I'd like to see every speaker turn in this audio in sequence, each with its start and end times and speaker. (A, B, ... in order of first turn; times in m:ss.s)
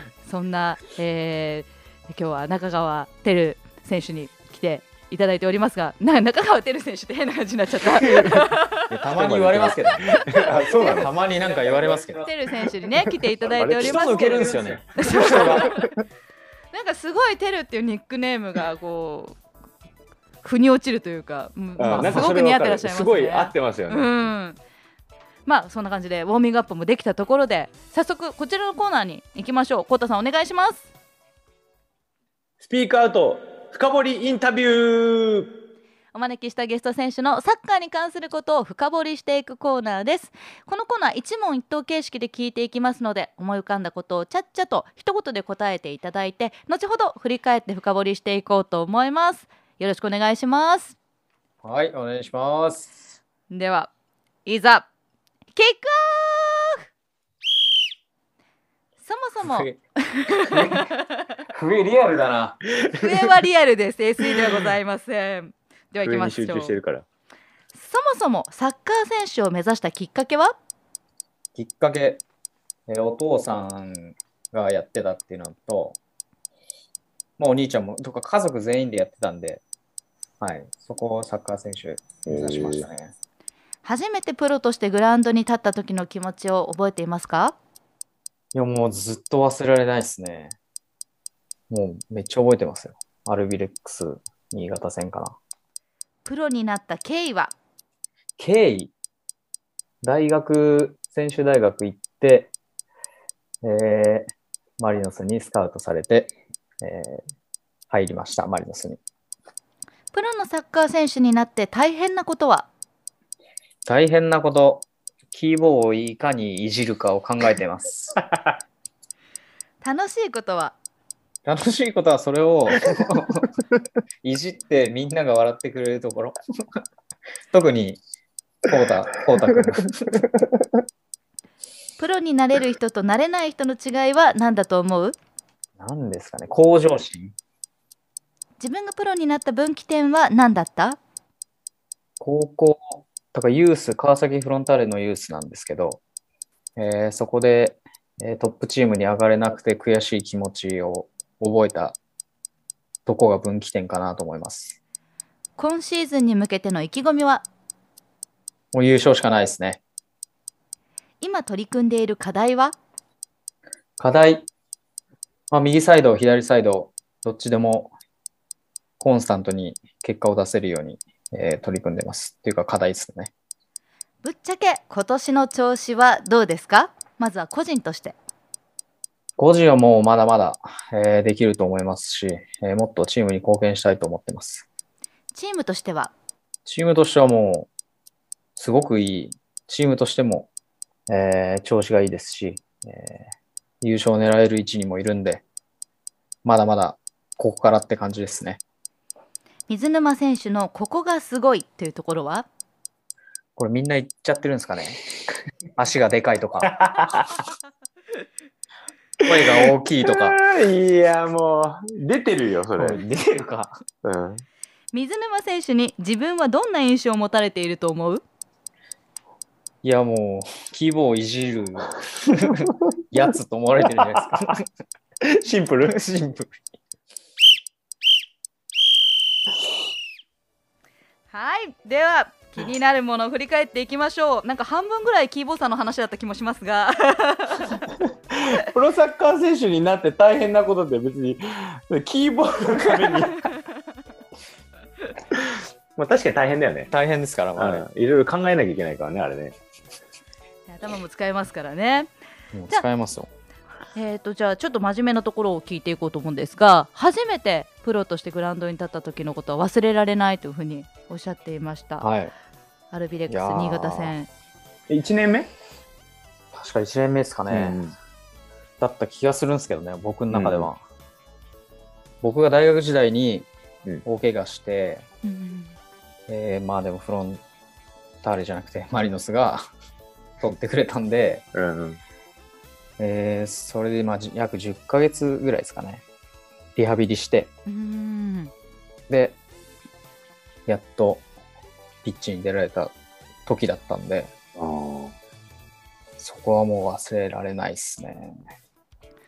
0:00.2-0:09.0 A
0:08.0-0:08.4 B
0:08.9-0:12.2 C
0:09.2-0:12.4 B
0:09.9-0:11.0 A
0:12.2-0:15.8 A
0:12.9-0:15.9 B
0:13.8-0:15.8 C
0:16.7-0:19.4 A
0:20.4-0:24.6 A
0:21.8-0:24.1 B
0:21.9-0:22.3 C
0:25.5-0:30.9 A
0:32.6-0:35.6 B
0:36.1-0:51.0 A
0:51.6-0:53.0 C
0:53.5-0:53.9 A
0:54.4-0:54.9 A
0:55.5-0:56.8 A
0:59.0-1:01.2 A
0:59.4-0:59.8 C
1:00.4-1:00.9 C
1:01.5-1:02.6 C
1:03.0-1:06.8 A
1:06.0-1:07.0 B
1:07.8-1:10.6 A
1:11.6-1:12.2 C
1:12.9-1:16.0 C
1:17.4-1:19.6 C
1:20.4-1:23.1 C
1:22.3-1:22.9 B
1:23.8-1:27.6 A
1:28.5-1:30.6 C
1:31.7-1:35.4 C
1:36.2-1:37.5 A
1:38.4-1:38.9 C
1:40.0-1:42.5 C
1:43.6-1:47.2 C
1:47.9-1:49.0 C
1:50.1-1:52.7 A
1:53.8-1:58.2 C
1:59.8-2:00.7 A
2:01.4-2:03.5 C
2:04.2-2:06.4 C
2:07.5-2:08.0 C
2:08.6-2:10.2 C
2:12.0-2:15.2 A
2:15.8-2:17.3 C
2:18.6-2:21.0 A
2:22.2-2:26.0 C
2:26.8-2:32.0 C
2:33.1-2:34.8 C
2:35.6-2:37.4 A
2:38.7-2:39.8 C
2:41.2-2:42.8 A
2:44.0-2:44.5 C
2:45.5-2:47.9 C
2:49.0-2:53.3 C
2:54.2-2:58.2 A
2:59.4-3:04.7 C
3:05.3-3:06.1 A
3:06.7-3:07.7 C
3:08.6-3:10.5 C
3:11.1-3:15.4 C
3:16.4-3:18.6 C
3:19.7-3:22.5 A
3:23.6-3:25.0 C
3:25.8-3:27.2 C
3:26.7-3:27.2 B
3:29.2-3:33.0 B
3:29.2-3:30.4 C
3:32.8-3:33.8 C
3:34.0-3:34.4 B
3:34.9-3:38.2 A
3:39.8-3:44.6 C
3:43.9-3:44.5 B
3:45.2-3:45.9 B
3:45.8-3:46.6 C
3:51.3-3:57.8 A
3:58.3-4:03.5 B
4:05.3-4:06.9 B
4:06.9-4:07.9 C
4:07.6-4:09.6 B
4:10.7-4:12.1 A
4:12.5-4:13.3 C
4:13.9-4:22.1 A
4:22.0-4:22.3 C
4:22.9-4:24.3 A
4:23.3-4:24.2 C
4:24.9-4:25.5 B
4:26.5-4:27.8 C
4:27.5-4:27.9 B
4:28.8-4:30.8 C
4:30.3-4:30.7 B
4:32.2-4:33.5 C
4:34.0-4:35.0 C
4:35.2-4:35.8 A
4:36.3-4:37.4 C
4:38.2-4:39.6 C
4:40.4-4:41.4 C
4:41.5-4:42.0 B
4:43.0-4:46.0 C
4:46.8-4:47.5 C
4:47.7-4:48.5 A
4:49.1-4:49.4 C
4:50.7-4:51.2 C
4:52.0-4:52.9 C
4:53.5-4:54.3 C
4:54.6-4:55.2 B
4:56.2-4:58.4 C